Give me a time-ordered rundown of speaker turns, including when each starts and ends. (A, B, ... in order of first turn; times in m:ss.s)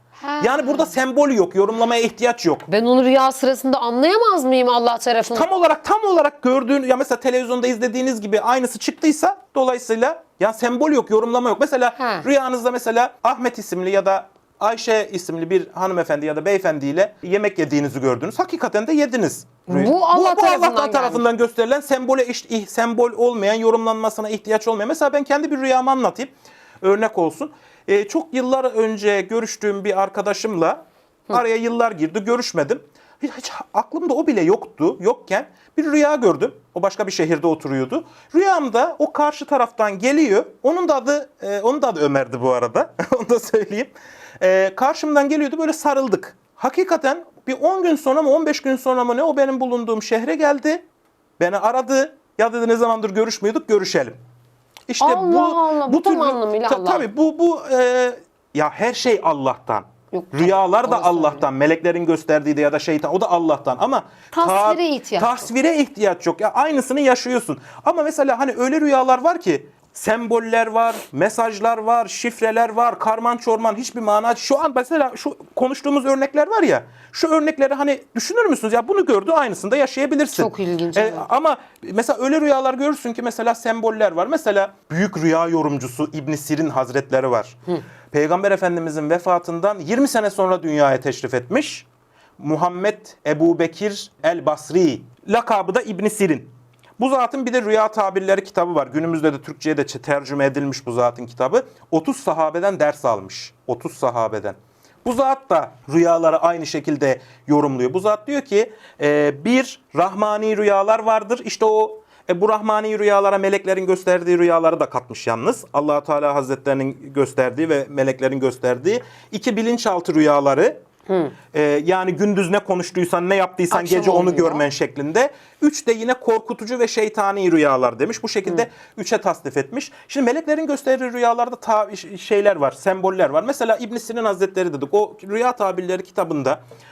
0:00.2-0:00.9 A
0:00.4-0:02.7 B
0:02.7-0:05.5 A
0:05.3-0:50.8 B
0:12.0-0:12.2 A
0:19.7-0:21.2 A
0:51.4-0:54.2 B
0:54.9-1:27.6 B
0:55.0-0:57.0 A
1:00.1-1:01.4 A
1:04.3-1:05.4 A
1:20.3-1:21.3 A
1:28.1-1:31.9 B
1:32.4-2:00.8 B
2:01.1-2:01.3 A
2:01.5-2:16.6 B
2:03.7-2:04.6 A